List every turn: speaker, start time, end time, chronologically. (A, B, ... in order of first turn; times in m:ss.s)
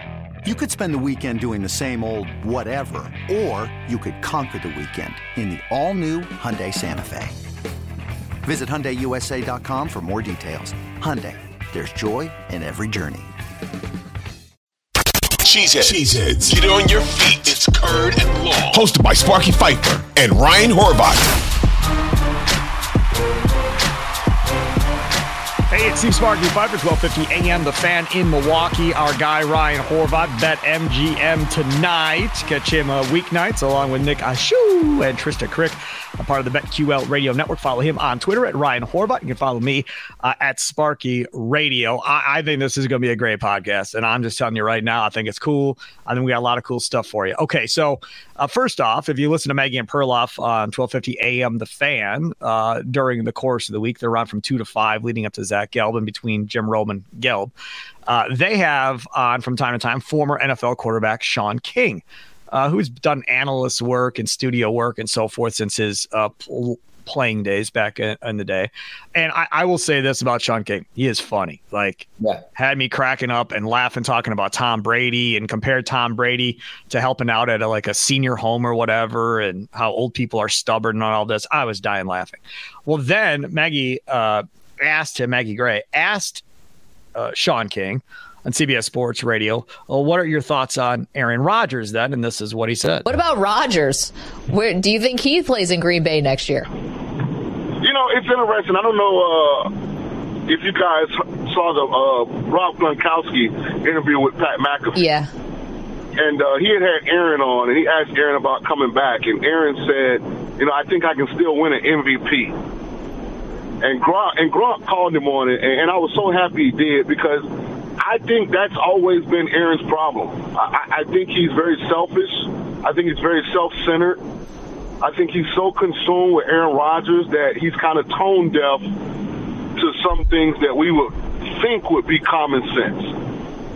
0:00.4-0:07.4 A
0:08.4-0:13.3 A
0:15.4-0:21.3 B
0:25.7-0:57.5 C
0:58.1-1:26.4 C
1:27.2-1:33.0 C
1:33.0-1:36.7 D
1:37.8-1:39.7 E
1:40.5-1:45.0 E
1:45.0-1:45.3 D
1:46.2-1:52.6 E
1:53.8-1:57.5 E
1:58.0-2:04.2 E
2:05.0-2:09.0 E
2:09.8-2:13.1 E